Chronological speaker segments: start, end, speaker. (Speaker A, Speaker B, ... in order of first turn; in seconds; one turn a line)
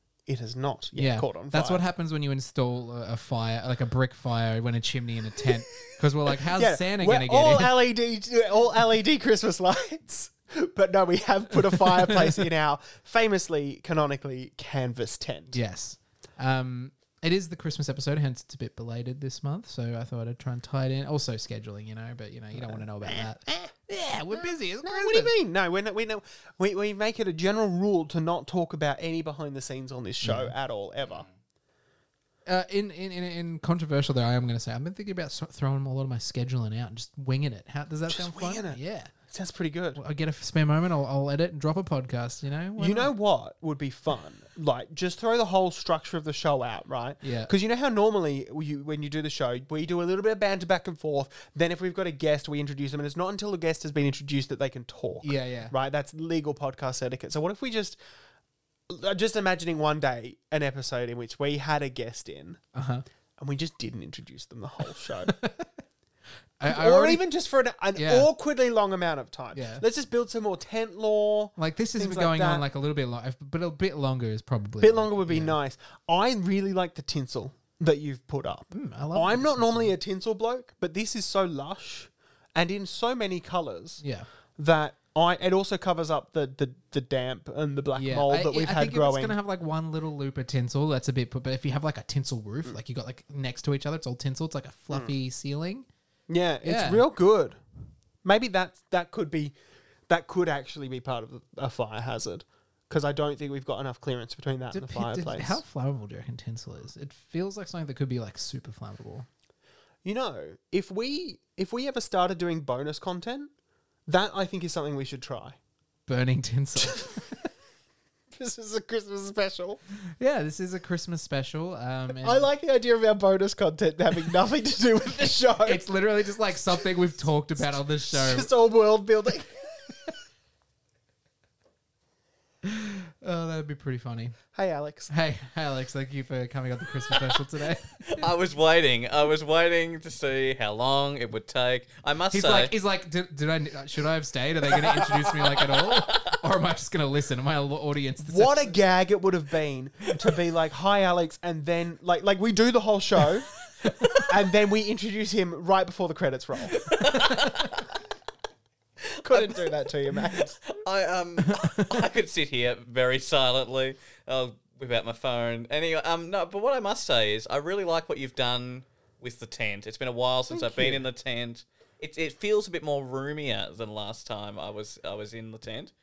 Speaker A: 0.3-1.8
Speaker B: 1.0-7.8
Speaker A: 6.5-15.6
Speaker B: 15.5-25.3
Speaker A: 22.6-23.7
Speaker A: 24.9-31.3
Speaker B: 30.2-30.6
Speaker C: 31.1-31.3
Speaker B: 32.5-39.1
Speaker A: 38.1-40.0
Speaker B: 40.0-43.1
Speaker A: 42.8-58.0
Speaker B: 47.2-47.5
Speaker B: 55.2-55.7
Speaker A: 58.9-62.6
Speaker B: 62.7-63.0
Speaker A: 63.4-65.3
Speaker B: 65.3-65.8
Speaker B: 66.6-67.2
Speaker A: 66.7-72.7
Speaker B: 68.0-68.3
Speaker B: 69.5-69.8
Speaker B: 71.6-75.6
Speaker A: 74.8-84.0
Speaker B: 78.7-79.9
Speaker B: 84.0-84.3
Speaker A: 84.6-89.4
Speaker B: 88.0-95.9
Speaker A: 96.3-97.6
Speaker B: 96.6-97.0
Speaker A: 98.2-99.6
Speaker A: 100.1-105.6
Speaker B: 104.7-109.3
Speaker A: 110.0-113.5
Speaker A: 114.1-115.6
Speaker B: 116.1-117.2
Speaker A: 116.8-117.2
Speaker A: 118.3-119.8
Speaker B: 120.2-122.5
Speaker A: 122.2-125.9
Speaker B: 125.6-128.5
Speaker A: 127.8-129.9
Speaker B: 132.6-134.4
Speaker A: 134.5-135.1
Speaker B: 135.1-138.3
Speaker C: 138.1-142.7
Speaker B: 142.3-148.8
Speaker C: 144.9-146.3
Speaker A: 148.2-153.5
Speaker A: 154.2-156.9
Speaker C: 156.7-157.9
Speaker C: 159.1-175.9
Speaker A: 159.2-160.6
Speaker B: 161.5-161.9
Speaker A: 170.5-171.0